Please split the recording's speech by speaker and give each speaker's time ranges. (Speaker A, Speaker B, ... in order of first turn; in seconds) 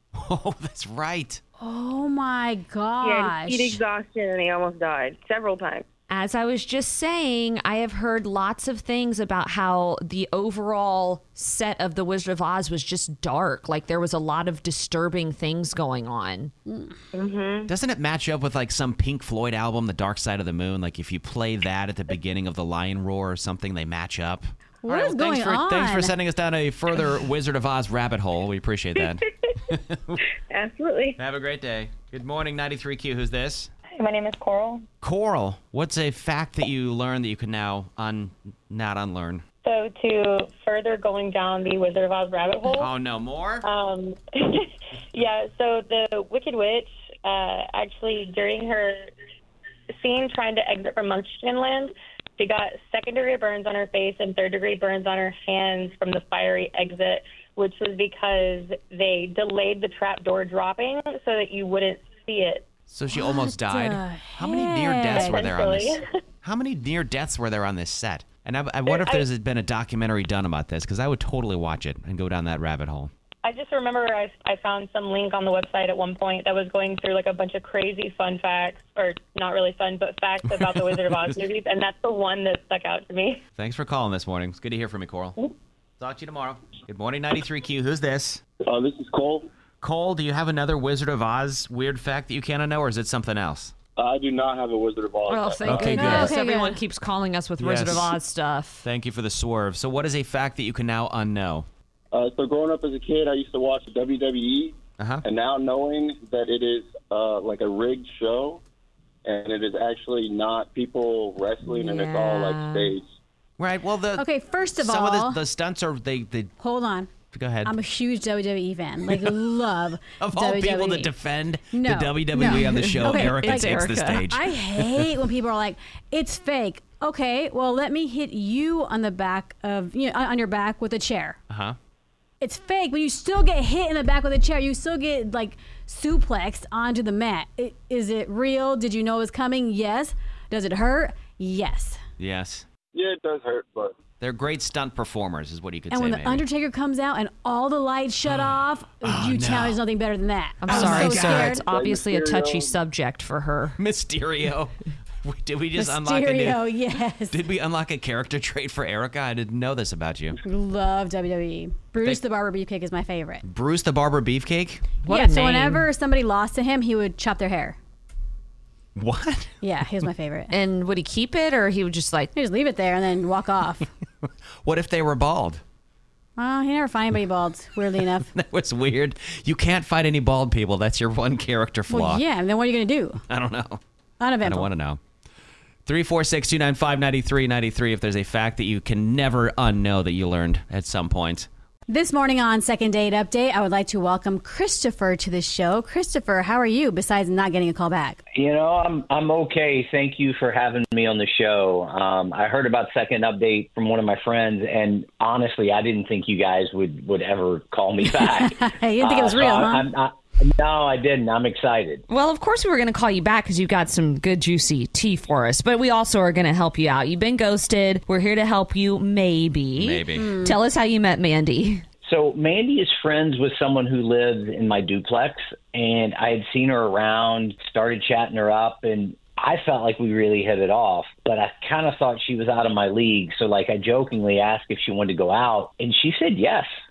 Speaker A: 0.1-1.4, 17.7-30.2, 31.2-33.7, 35.0-39.4, 42.7-43.7, 62.9-73.1, 83.6-85.4, 86.0-88.4, 89.8-93.7, 95.7-96.3, 97.6-98.2, 98.8-101.7, 105.0-105.2, 113.6-116.5, 117.3-117.8, 119.1-119.5, 120.2-125.2, 131.5-131.8, 142.2-142.7, 144.2-146.4, 148.3-149.8, 150.7-151.6, 153.8-160.4, 163.4-164.9, 169.0-169.5, 174.2-175.6, 178.3-182.2, 183.3-183.8, 184.4-185.0, 185.9-191.5, 219.8-220.4
Speaker B: 1.6-3.8, 16.7-17.0, 24.8-26.1, 63.1-65.5, 95.8-96.8, 114.2-115.4, 116.6-117.1, 117.7-121.1, 121.7-131.4, 132.4-142.0, 145.9-151.7, 155.8-157.4, 160.4-163.4, 165.1-167.8, 169.6-170.5, 172.3-173.9, 176.4-178.3, 181.9-183.2, 184.2-184.7, 191.9-198.2, 208.1-209.9, 220.2-220.6
Speaker C: 3.0-5.8, 17.1-17.7, 30.5-31.2
Speaker D: 6.1-16.5, 95.3-98.9, 111.7-112.9, 122.4-124.2, 150.6-153.8, 165.0-165.9, 170.5-172.3, 212.1-221.8
Speaker E: 33.9-34.9, 39.6-42.9, 43.6-49.1, 50.0-62.7, 65.1-66.0, 68.9-69.3, 73.4-83.4
Speaker F: 88.6-89.5, 94.0-96.2, 102.1-108.6, 109.2-113.1, 142.9-143.9, 151.5-152.8
Speaker G: 198.3-212.0, 222.0-236.7